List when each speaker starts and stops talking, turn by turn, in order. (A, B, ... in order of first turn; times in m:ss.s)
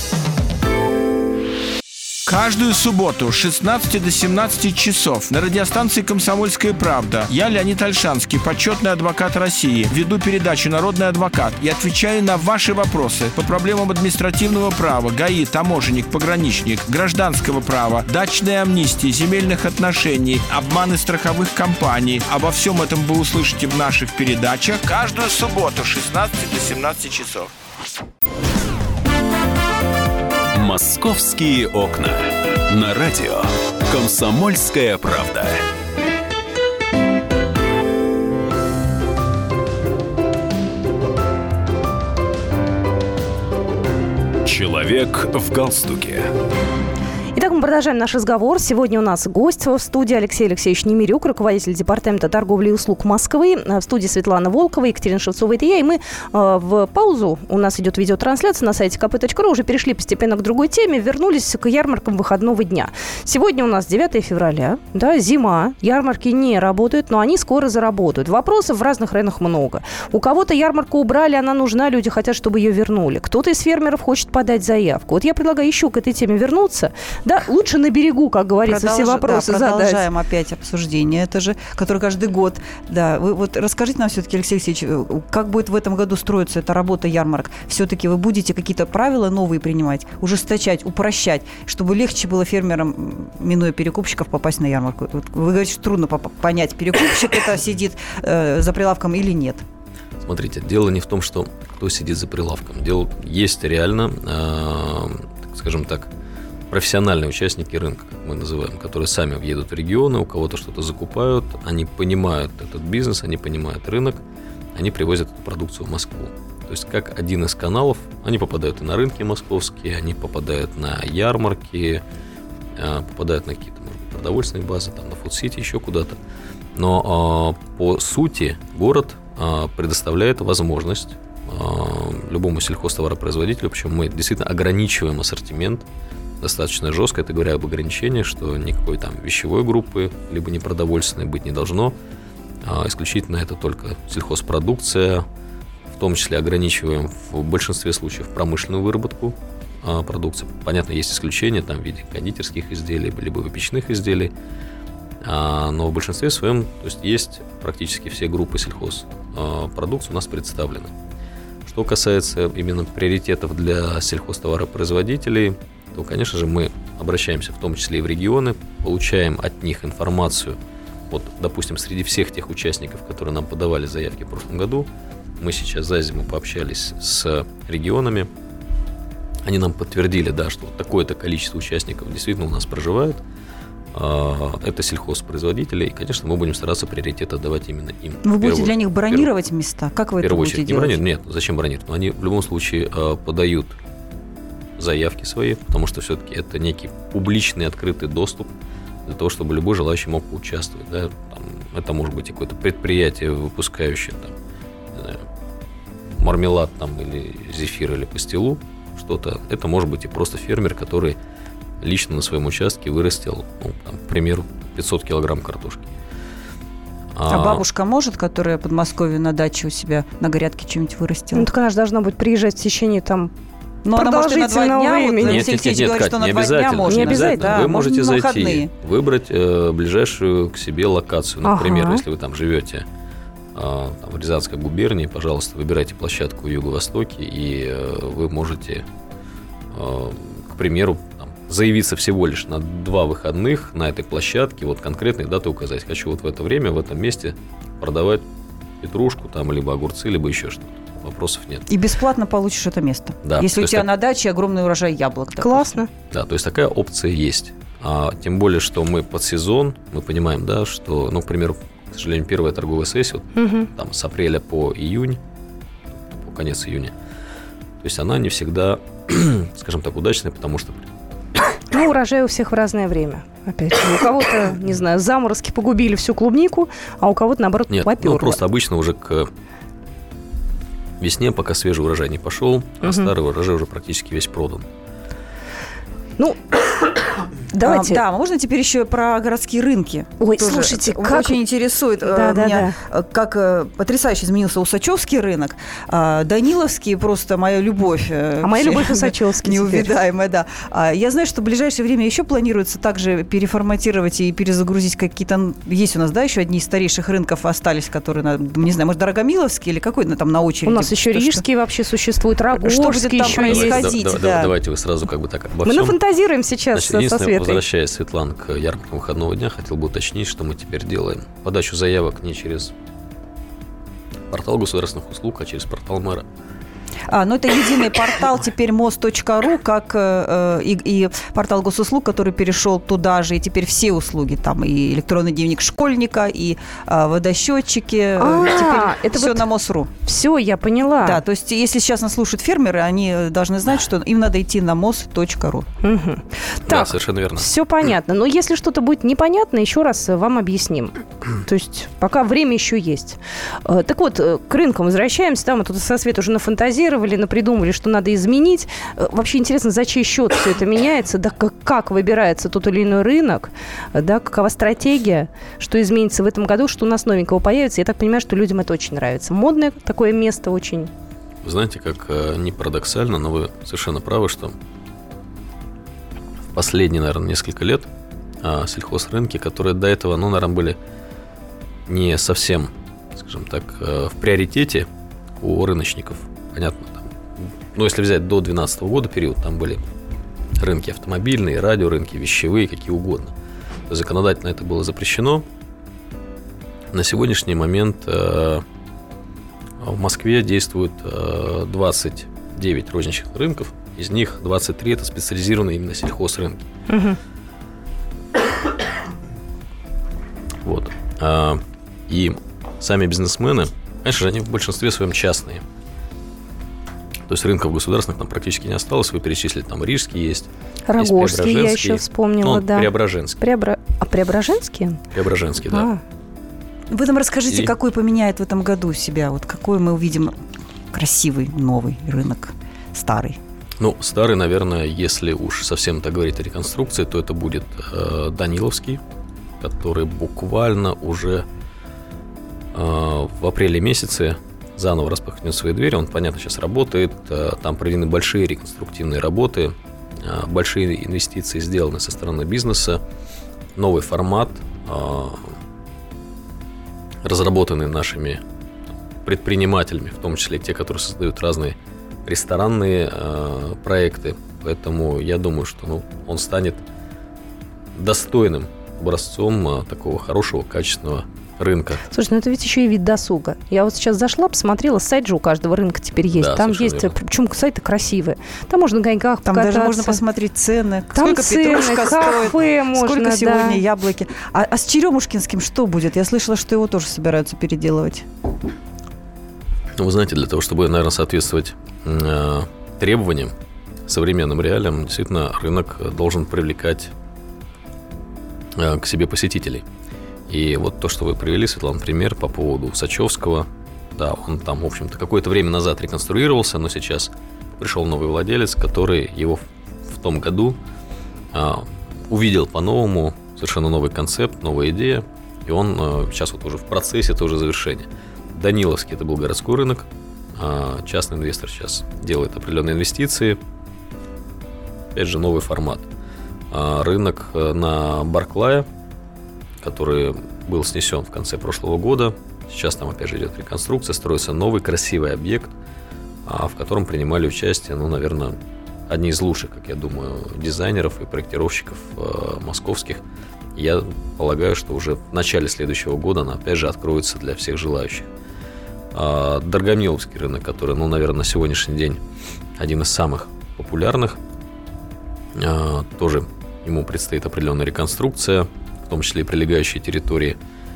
0:02.3-0:27.5 A
0:30.5-0:35.6 B
0:44.4-0:46.3 B
0:47.4-1:20.0 C
1:18.6-1:39.6 D
1:40.2-1:46.1 E
1:46.7-1:54.2 E
1:54.8-2:02.0 E
2:02.8-2:06.2 E
2:06.8-2:15.9 E
2:16.4-2:22.0 E
2:22.6-2:25.3 E
2:25.9-2:34.3 E
2:35.2-2:40.9 E
2:41.6-2:50.6 E
2:51.1-2:54.9 E
2:55.4-2:58.3 E
2:59.4-3:03.2 E
3:03.9-3:09.3 E
3:08.2-3:11.0 D
3:10.2-3:13.8 E
3:14.8-3:18.5 E
3:19.0-3:24.4 E
3:24.9-3:25.2 E
3:26.2-3:31.2 E
3:31.8-3:35.9 E
3:37.2-3:37.6 E
3:37.3-3:41.5 D
3:41.3-3:43.3 C
3:43.8-3:48.7 D
3:43.9-3:45.5 C
3:45.2-3:52.9 E
3:46.9-3:47.6 C
3:51.4-3:52.0 C
3:53.5-3:58.9 E
3:59.7-4:08.2 E
4:08.8-4:11.7 E
4:11.7-4:15.7 D
4:13.2-4:13.9 E
4:15.4-4:15.9 C
4:16.1-4:25.2 E
4:23.4-4:23.7 C
4:26.1-4:26.9 E
4:27.8-4:30.9 E
4:31.7-4:38.4 C
4:37.7-4:39.3 E
4:41.0-4:44.7 E
4:42.8-4:43.1 C
4:46.2-4:46.6 C
4:47.5-4:48.0 C
4:47.6-5:11.4 D
4:50.2-4:51.4 C
4:52.0-4:52.8 C
4:58.4-4:59.9 C
5:10.6-5:13.9 C
5:12.5-5:14.5 D
5:13.2-5:16.0 E
5:15.6-5:17.6 C
5:16.7-5:22.7 E
5:24.3-5:26.2 E
5:27.1-5:39.9 D
5:38.2-5:39.5 C
5:40.0-5:41.2 C
5:41.0-5:45.7 D
5:45.8-6:10.9 C
5:46.6-5:47.5 E
6:11.4-6:14.6 E
6:16.5-6:17.9 E
6:18.4-6:20.8 E
6:21.9-6:24.9 E
6:25.4-6:29.8 E
6:30.6-6:33.3 E
6:33.9-6:35.5 E
6:36.9-6:38.6 E
6:39.8-6:46.6 E
6:46.9-6:47.2 C
6:50.6-6:55.6 E
6:57.3-7:03.4 E
7:00.9-7:05.0 C
7:05.1-7:05.9 E
7:05.7-7:06.0 C
7:06.9-7:10.4 D
7:07.5-7:07.7 E
7:10.9-7:13.4 D
7:13.8-7:19.0 E
7:19.6-7:21.5 E
7:22.7-7:33.0 E
7:33.8-7:35.6 E
7:37.2-7:38.4 E
7:39.2-7:46.8 E
7:47.9-7:52.1 E
7:52.1-8:00.2 C
7:56.3-7:57.2 E
7:59.5-8:08.3 D
8:01.1-8:03.8 C
8:10.0-8:13.5 E
8:14.1-8:17.1 E
8:18.8-8:19.8 E
8:20.5-8:30.8 E
8:31.5-8:43.6 E
8:45.1-8:46.1 E
8:46.7-8:48.9 E
8:49.8-8:55.7 E
8:56.4-8:58.6 E
8:59.1-9:03.2 E
9:03.8-9:08.3 E
9:09.1-9:12.2 E
9:12.8-9:14.4 E
9:15.6-9:20.6 E